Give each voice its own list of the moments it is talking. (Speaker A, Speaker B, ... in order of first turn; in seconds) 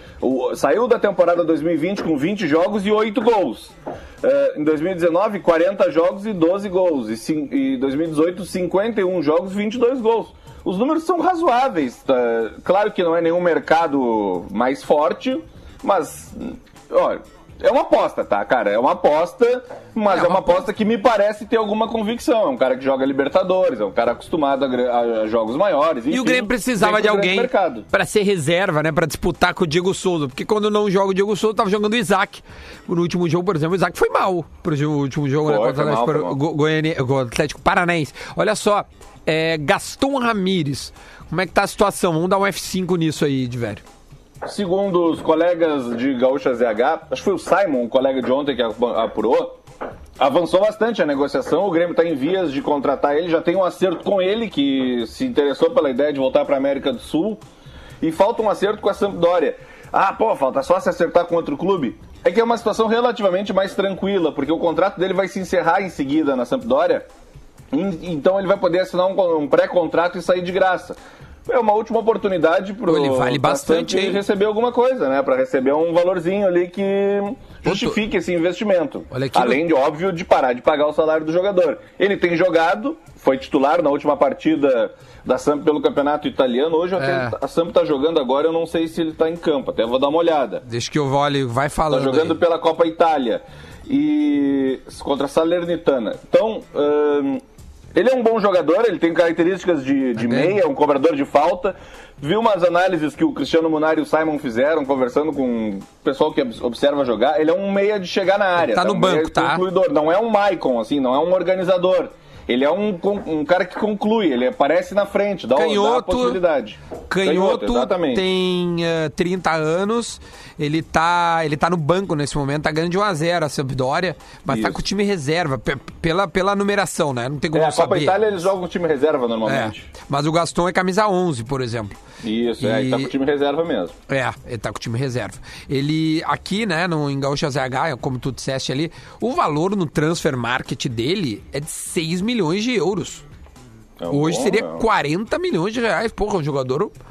Speaker A: 0.2-27.9, 35.5-36.4, 44.5-49.6, 50.2-57.4, 58.0-67.1, 67.7-90.6, 91.9-97.4, 98.0-118.3, 124.5-124.8, 127.5-129.9, 132.2-133.9, 144.0-144.8
Speaker B: 20.1-20.5, 26.1-43.8, 72.9-74.2, 77.7-78.0, 79.1-79.6, 87.0-87.4, 90.7-92.4, 100.2-100.6, 108.6-109.6, 115.6-116.4, 117.1-128.2, 129.5-131.9, 132.6-133.1, 134.1-143.2, 144.1-146.9